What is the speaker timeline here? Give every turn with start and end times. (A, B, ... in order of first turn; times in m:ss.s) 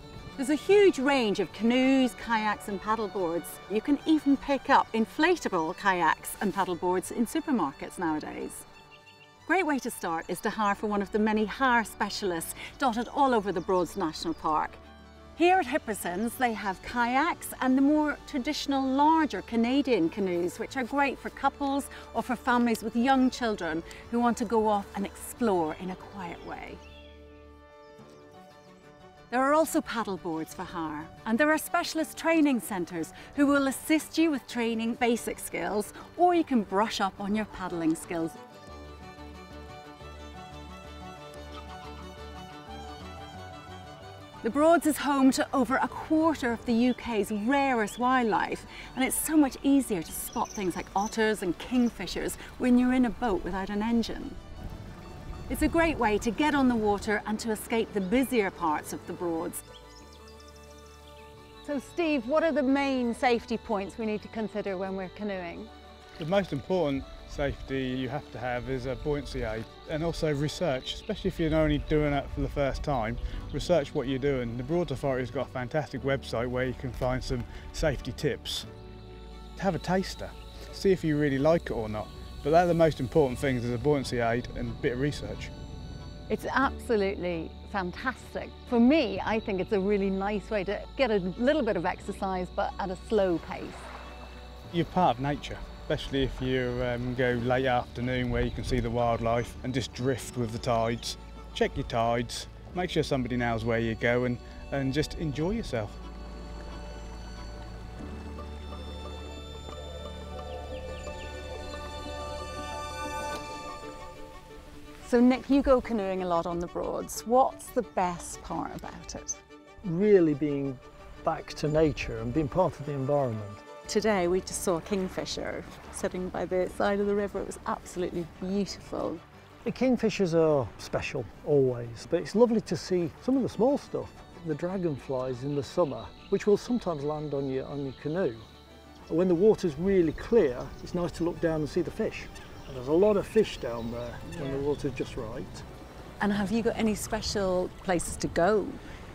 0:00.4-0:08.6 A
0:09.4-0:14.8 A
0:15.4-0:26.8 A
0:29.3-0:38.4 A
0:44.4-0:54.4 A
0:55.5-0:59.6 A
1:01.6-1:05.7 A
1:06.2-1:18.7 B
1:19.6-1:25.5 B
1:26.3-1:33.9 A
1:34.7-1:46.0 B
1:55.0-1:59.4 A
1:59.8-2:03.6 C
2:03.8-2:09.2 A
2:09.6-2:18.5 C
2:19.1-2:25.6 C
2:26.2-2:28.8 A